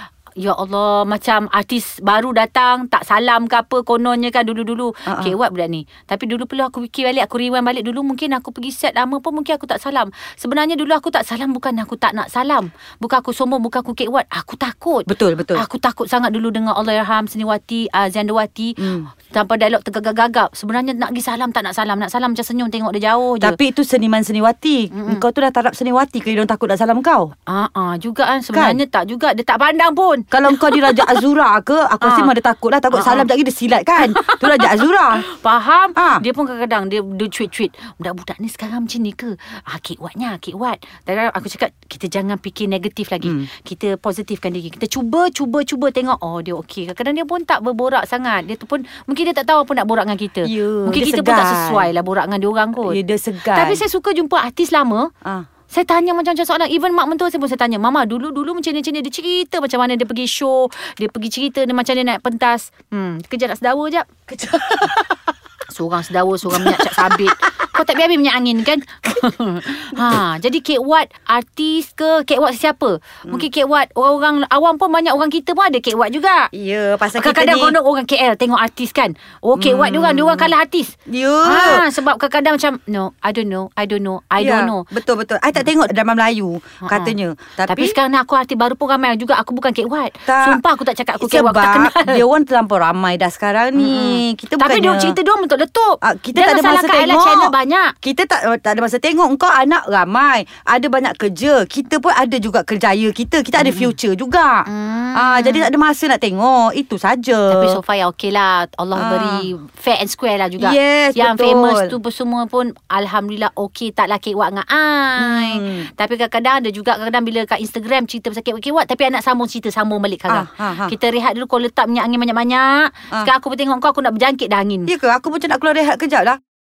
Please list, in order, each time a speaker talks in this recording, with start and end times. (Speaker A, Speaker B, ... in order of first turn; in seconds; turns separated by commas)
Speaker A: 0.4-23.6, Speaker B: 5.1-5.3, Speaker B: 15.1-15.6, Speaker B: 18.8-19.1, Speaker B: 23.4-27.3, Speaker A: 24.9-25.2, Speaker A: 27.5-31.2, Speaker B: 28.5-28.8, Speaker B: 30.3-35.2, Speaker A: 32.0-32.3, Speaker A: 32.9-33.3, Speaker A: 34.0-55.1, Speaker B: 36.0-36.2, Speaker B: 43.2-43.5, Speaker B: 50.4-51.9, Speaker B: 52.8-53.8, Speaker A: 55.7-64.3, Speaker B: 64.4-65.0, Speaker A: 65.7-76.5, Speaker B: 66.5-67.5, Speaker B: 69.9-70.2, Speaker B: 76.5-77.8, Speaker A: 77.1-84.9, Speaker B: 79.5-80.5, Speaker B: 81.1-81.9, Speaker B: 84.4-88.0, Speaker A: 86.8-87.1, Speaker A: 87.7-92.2, Speaker B: 90.3-90.6, Speaker B: 91.2-95.2, Speaker A: 93.8-97.9, Speaker B: 96.0-107.8, Speaker A: 103.6-103.9, Speaker A: 104.7-105.7, Speaker A: 107.5-124.9, Speaker B: 109.0-109.5, Speaker B: 110.6-112.0, Speaker B: 115.2-115.9, Speaker B: 120.3-121.0, Speaker B: 124.9-126.4